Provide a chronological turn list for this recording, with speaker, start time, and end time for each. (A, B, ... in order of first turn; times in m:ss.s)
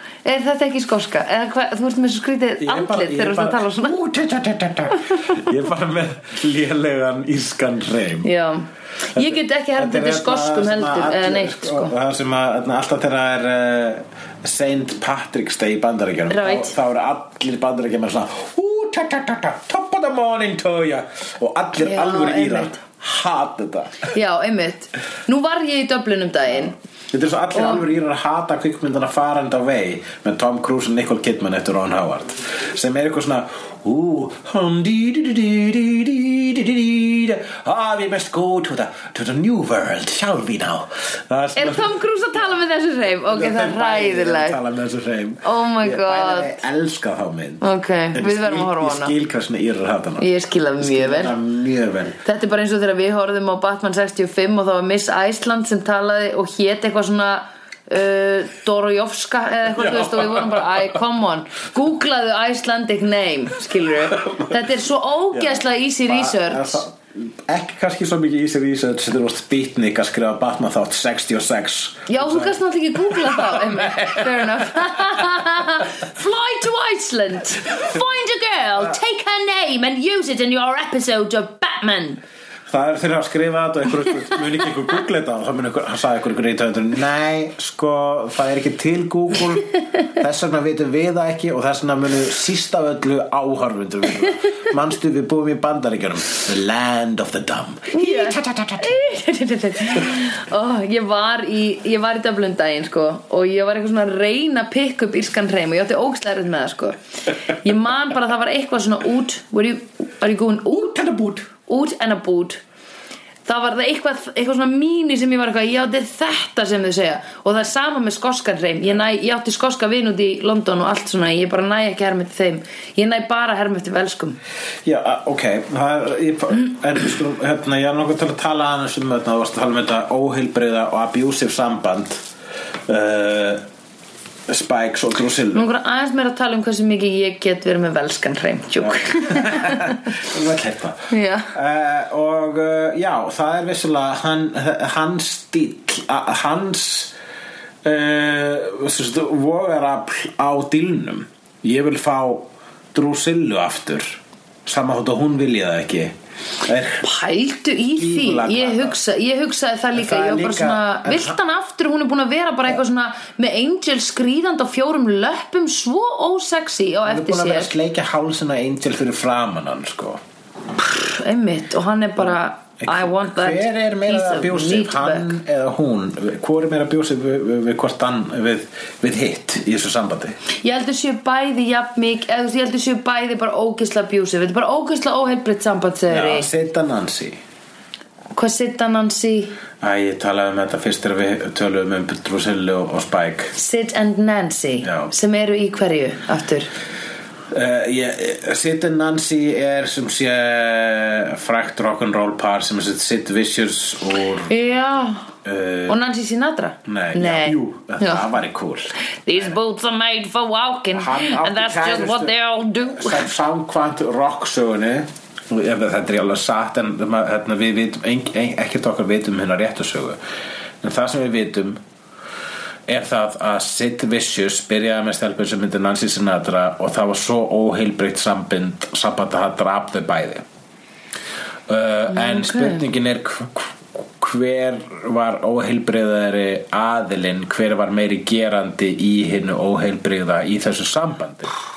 0:00.2-0:04.0 A
0:02.6-0:08.3 B
0:08.2-0:11.9 A
0:09.2-0:24.1 B
0:16.3-0:16.7 A
0:21.8-0:22.8 A
0:24.1-0:26.8 A
0:27.1-0:41.9 B
0:27.5-0:27.8 A
0:41.6-0:44.6 A
0:43.3-0:50.3 B
0:45.4-0:46.6 A
0:47.6-0:49.1 A
0:50.2-0:51.3 A
0:50.8-0:52.2 B
0:52.2-1:06.8 A
0:59.8-1:01.0 B
1:04.2-1:04.5 B
1:05.3-1:14.6 B
1:12.1-1:22.2 A
1:22.7-1:39.1 B
1:37.9-1:47.0 A
1:47.5-1:50.9 A
1:50.7-1:51.5 B
1:51.6-1:52.6 A
1:53.4-2:04.4 A
2:04.8-2:12.2 B
2:12.9-2:13.6 B
2:14.5-2:15.7 B
2:15.5-2:20.0 A
2:18.8-2:27.1 B
2:21.1-2:21.5 A
2:27.8-2:37.0 B
2:37.0-2:47.7 A
2:37.9-2:39.0 B
2:39.9-2:41.4 B
2:47.0-2:50.2 B
2:50.8-2:55.4 A
2:52.8-3:00.4 B
3:00.6-3:06.5 A
3:06.1-3:07.4 B
3:08.3-3:09.6 A
3:09.8-3:13.5 B
3:13.5-3:16.7 A
3:14.8-3:15.1 B
3:17.5-3:24.5 B
3:24.5-3:25.3 A
3:25.4-3:26.0 B
3:25.9-3:28.2 A
3:26.8-3:29.5 B
3:29.2-3:33.3 A
3:30.9-3:32.3 B
3:32.9-3:40.2 B
3:40.8-3:41.8 B
3:42.9-3:50.4 B
3:51.7-4:01.5 B
3:52.1-3:52.8 A